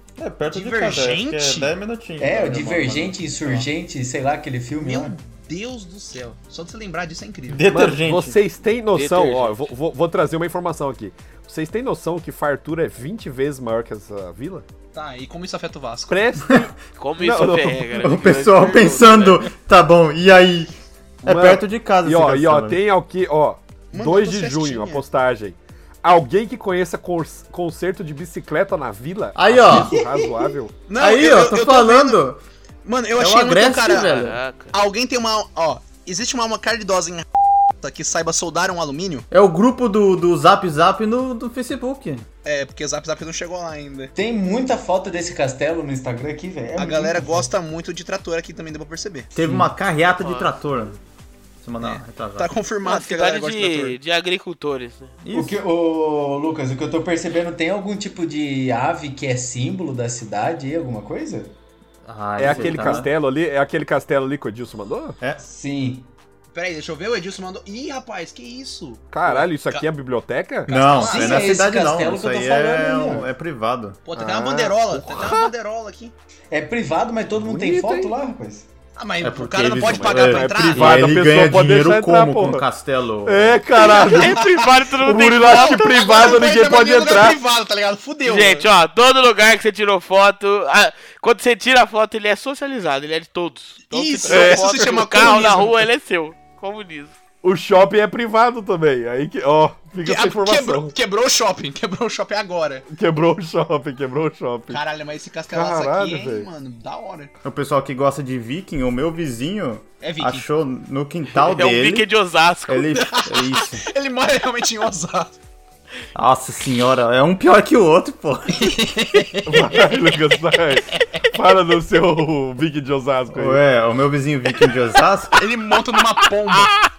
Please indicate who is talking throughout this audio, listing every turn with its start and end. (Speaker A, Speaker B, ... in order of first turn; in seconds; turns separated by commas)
Speaker A: 0.2-3.7, Speaker B: 0.5-1.7, Speaker C: 2.2-5.2, Speaker B: 4.8-7.8, Speaker A: 7.5-8.4, Speaker D: 7.7-14.6, Speaker E: 8.9-9.7, Speaker B: 14.9-16.2, Speaker D: 16.1-18.1, Speaker E: 16.9-19.5, Speaker A: 18.0-22.8, Speaker D: 21.2-30.8, Speaker B: 23.9-25.0, Speaker A: 29.3-32.4, Speaker B: 30.9-32.3, Speaker B: 32.8-37.2, Speaker A: 33.2-34.4, Speaker E: 33.9-34.8, Speaker B: 37.8-39.2, Speaker A: 39.3-42.2, Speaker B: 42.4-44.1, Speaker C: 44.1-47.5, Speaker B: 46.8-49.3, Speaker A: 49.3-51.0, Speaker C: 49.4-49.7, Speaker E: 50.2-50.6, Speaker A: 51.6-52.5, Speaker B: 51.8-54.0, Speaker E: 52.8-55.1, Speaker A: 55.2-55.6, Speaker C: 55.3-61.5, Speaker A: 62.0-63.1, Speaker D: 62.4-65.2, Speaker C: 62.4-63.0, Speaker C: 65.4-66.1, Speaker B: 66.5-69.8, Speaker D: 69.1-71.0, Speaker A: 70.7-74.0, Speaker B: 70.7-71.5, Speaker C: 71.0-73.3, Speaker B: 74.0-76.1, Speaker D: 74.2-75.5, Speaker C: 76.5-78.7, Speaker D: 77.4-78.1, Speaker B: 79.0-81.2, Speaker A: 79.2-83.6, Speaker D: 79.7-82.7, Speaker D: 83.2-87.4, Speaker E: 83.8-85.9, Speaker B: 83.9-84.4, Speaker B: 85.4-88.7, Speaker E: 88.2-97.2, Speaker B: 93.9-95.8, Speaker D: 94.3-95.0, Speaker D: 97.4-100.9, Speaker B: 100.0-102.8, Speaker D: 102.9-104.8, Speaker B: 104.7-107.3, Speaker D: 105.5-106.5, Speaker A: 107.4-112.1, Speaker B: 110.0-110.5, Speaker E: 111.3-112.9, Speaker A: 112.7-113.8, Speaker B: 112.9-115.4, Speaker A: 116.1-119.7, Speaker B: 118.5-119.6, Speaker D: 119.5-123.6, Speaker A: 123.3-125.5, Speaker B: 125.3-126.7